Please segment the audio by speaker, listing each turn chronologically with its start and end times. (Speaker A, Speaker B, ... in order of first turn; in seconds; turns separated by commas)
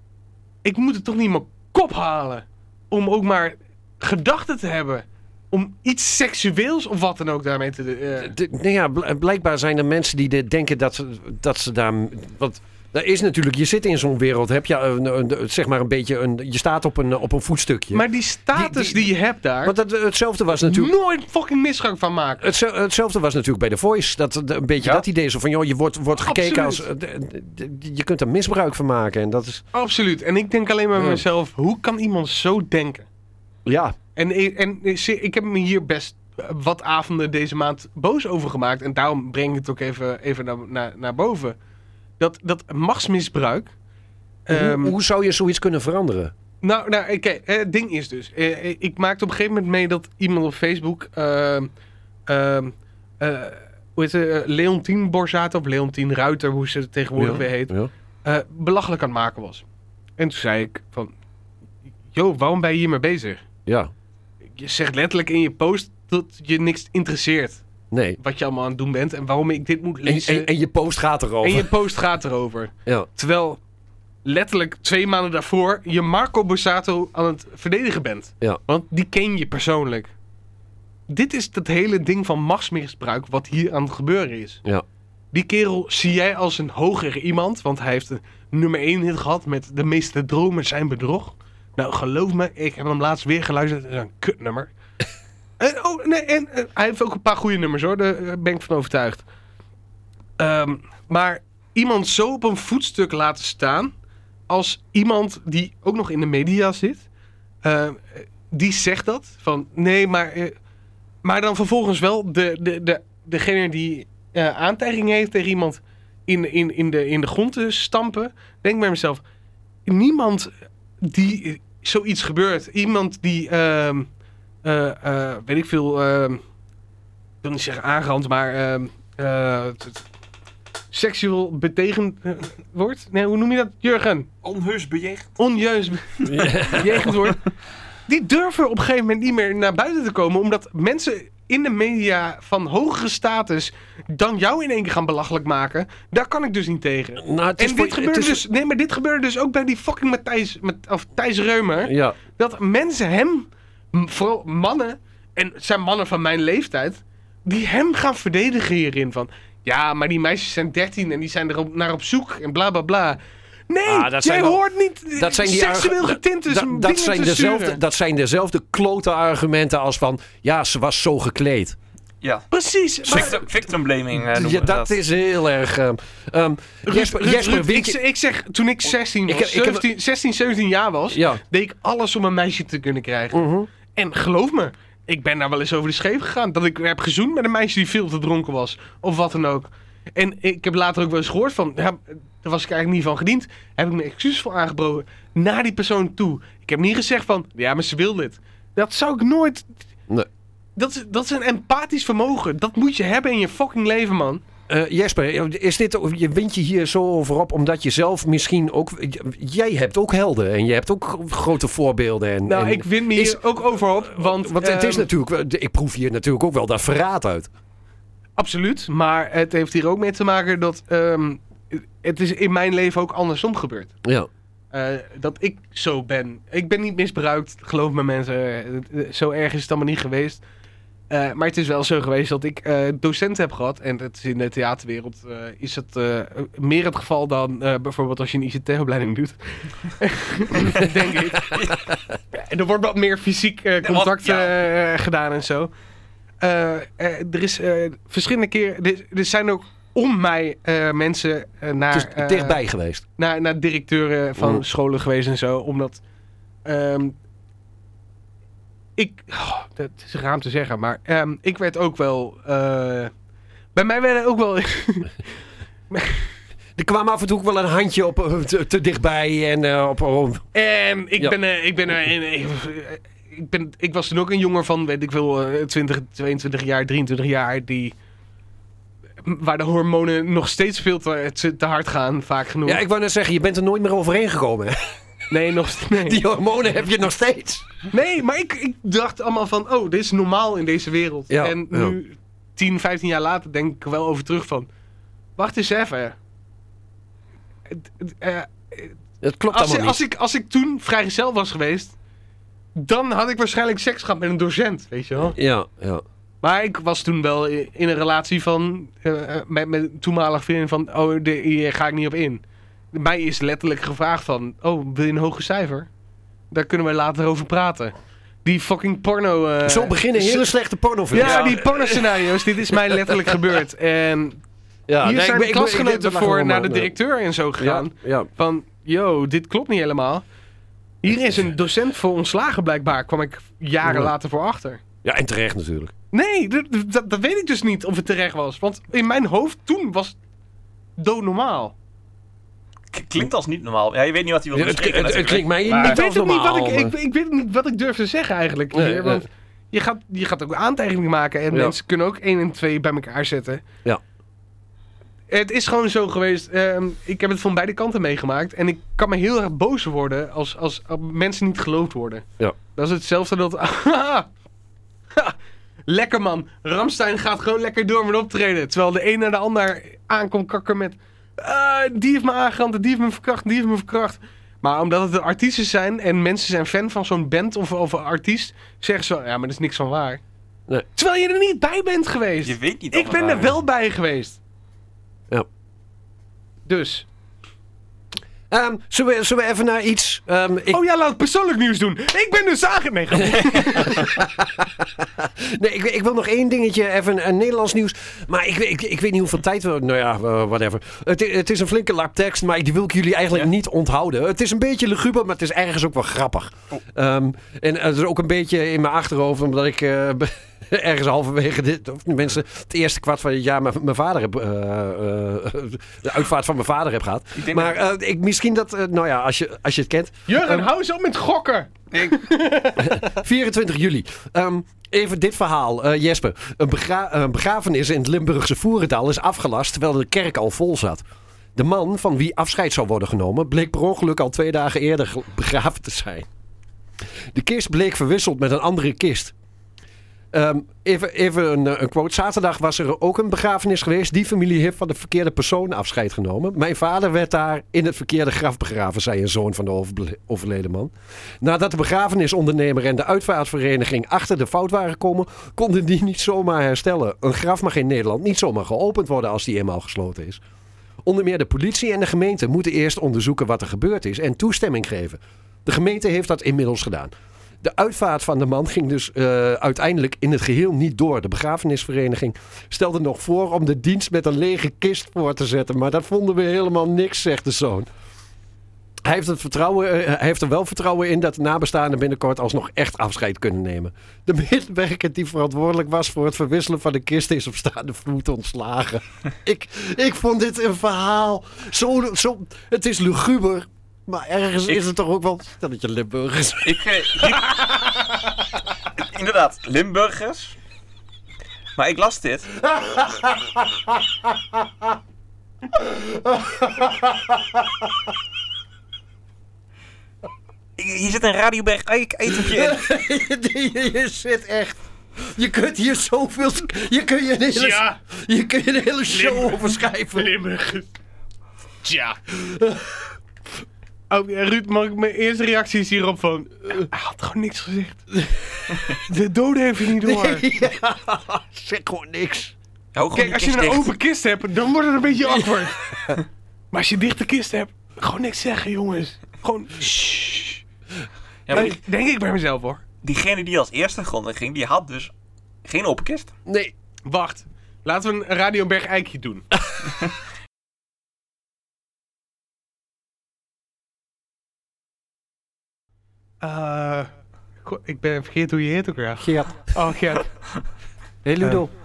Speaker A: 0.6-8.3, Speaker B: 8.2-20.9, Speaker A: 17.9-19.7, Speaker A: 20.6-22.5, Speaker B: 22.4-29.6, Speaker A: 24.8-25.0, Speaker A: 26.1-26.9, Speaker A: 29.7-33.1, Speaker B: 31.0-31.2, Speaker B: 33.6-34.0, Speaker A: 34.1-41.6, Speaker A: 42.2-43.7, Speaker A: 44.5-44.9, Speaker B: 44.5-46.3, Speaker A: 46.6-51.7, Speaker A: 52.3-59.6, Speaker B: 57.2-57.9, Speaker A: 60.2-61.1, Speaker A: 62.1-63.4, Speaker B: 63.6-63.9, Speaker A: 64.5-67.6, Speaker B: 67.9-68.2, Speaker A: 68.2-70.5, Speaker B: 70.0-71.7, Speaker A: 71.4-73.6, Speaker A: 74.2-80.1, Speaker A: 81.1-84.6, Speaker A: 85.3-94.7, Speaker A: 95.6-99.2, Speaker A: 100.4-103.9, Speaker A: 104.5-107.1, Speaker A: 107.6-110.5, Speaker A: 111.2-119.2, Speaker A: 119.8-120.5, Speaker A: 121.0-124.1, Speaker A: 124.6-126.4, Speaker A: 127.4-130.0, Speaker A: 130.9-134.3, Speaker C: 134.4-135.3, Speaker A: 135.4-137.4, Speaker B: 136.2-137.3, Speaker A: 138.1-167.8, Speaker B: 147.2-148.4, Speaker B: 151.8-152.2, Speaker B: 163.8-171.8, Speaker C: 172.2-172.5, Speaker A: 172.5-173.4, Speaker C: 173.0-175.0, Speaker B: 174.2-178.0, Speaker A: 176.8-199.7, Speaker B: 179.3-179.8, Speaker B: 181.1-181.4, Speaker B: 183.3-183.7, Speaker A: 200.8-204.4, Speaker B: 204.7-213.4, Speaker A: 212.4-215.1, Speaker B: 214.1-217.5, Speaker A: 218.4-223.9, Speaker B: 224.0-224.3, Speaker A: 224.7-230.4, Speaker A: 231.1-241.5, Speaker A: 242.3-245.7, Speaker C: 243.8-244.5, Speaker A: 246.4-252.6, Speaker B: 251.9-253.0, Speaker A: 253.2-256.0, Speaker B: 254.4-254.6, Speaker A: 256.6-257.1, Speaker A: 259.0-263.1, Speaker A: 263.7-265.2, Speaker A: 265.9-266.3, Speaker B: 266.8-270.5, Speaker A: 270.5-277.9, Speaker A: 279.2-282.8, Speaker B: 282.6-284.9, Speaker A: 285.3-286.2, Speaker B: 286.0-287.7, Speaker A: 287.9-294.7, Speaker B: 291.3-291.9, Speaker A: 295.4-296.2, Speaker A: 297.7-298.9, Speaker B: 299.2-300.0, Speaker A: 299.5-301.9, Speaker A: 302.7-305.4, Speaker B: 305.4-306.0, Speaker A: 306.4-315.9, Speaker A: 316.5-317.9, Speaker A: 318.4-320.5, Speaker B: 319.6-323.4, Speaker A: 321.1-324.4, Speaker C: 321.2-321.5, Speaker B: 324.9-326.9, Speaker A: 325.0-330.2, Speaker B: 327.6-328.3, Speaker A: 331.0-334.8, Speaker B: 333.8-334.1, Speaker B: 335.0-335.9, Speaker A: 336.1-340.2, Speaker A: 341.0-341.7, Speaker C: 342.9-346.0, Speaker B: 344.5-346.9, Speaker A: 345.7-353.6, Speaker B: 348.7-349.2, Speaker A: 355.3-364.3, Speaker A: 365.9-380.2, Speaker A: 380.9-384.4, Speaker C: 382.4-383.6, Speaker A: 386.6-387.1, Speaker B: 388.5-390.8, Speaker A: 390.7-394.1, Speaker B: 393.2-420.7, Speaker C: 417.4-417.8, Speaker A: 420.3-423.1, Speaker C: 421.9-422.2, Speaker B: 422.8-431.0, Speaker B: 431.6-436.3, Speaker B: 437.3-439.3, Speaker B: 440.3-460.4, Speaker B: 461.0-477.9, Speaker B: 479.0-496.9, Speaker C: 496.6-497.6, Speaker C: 499.0-500.6, Speaker C: 501.8-502.5, Speaker B: 502.6-504.7, Speaker B: 505.7-508.1, Speaker C: 510.8-512.8, Speaker B: 512.3-520.3, Speaker A: 517.5-518.0, Speaker A: 519.1-520.9, Speaker A: 521.8-522.2, Speaker B: 522.3-523.0, Speaker A: 524.1-528.1, Speaker A: 529.0-530.5, Speaker B: 530.0-532.5, Speaker C: 532.9-533.9, Speaker A: 533.1-535.8, Speaker B: 535.2-536.2, Speaker A: 536.7-540.6, Speaker C: 541.5-541.8, Speaker A: 541.5-542.8, Speaker C: 543.0-545.1, Speaker C: 545.6-546.3, Speaker B: 546.5-546.7, Speaker A: 547.0-549.4, Speaker A: 556.4-557.1, Speaker A: 557.6-560.3, Speaker B: 559.2-559.7, Speaker B: 561.2-561.7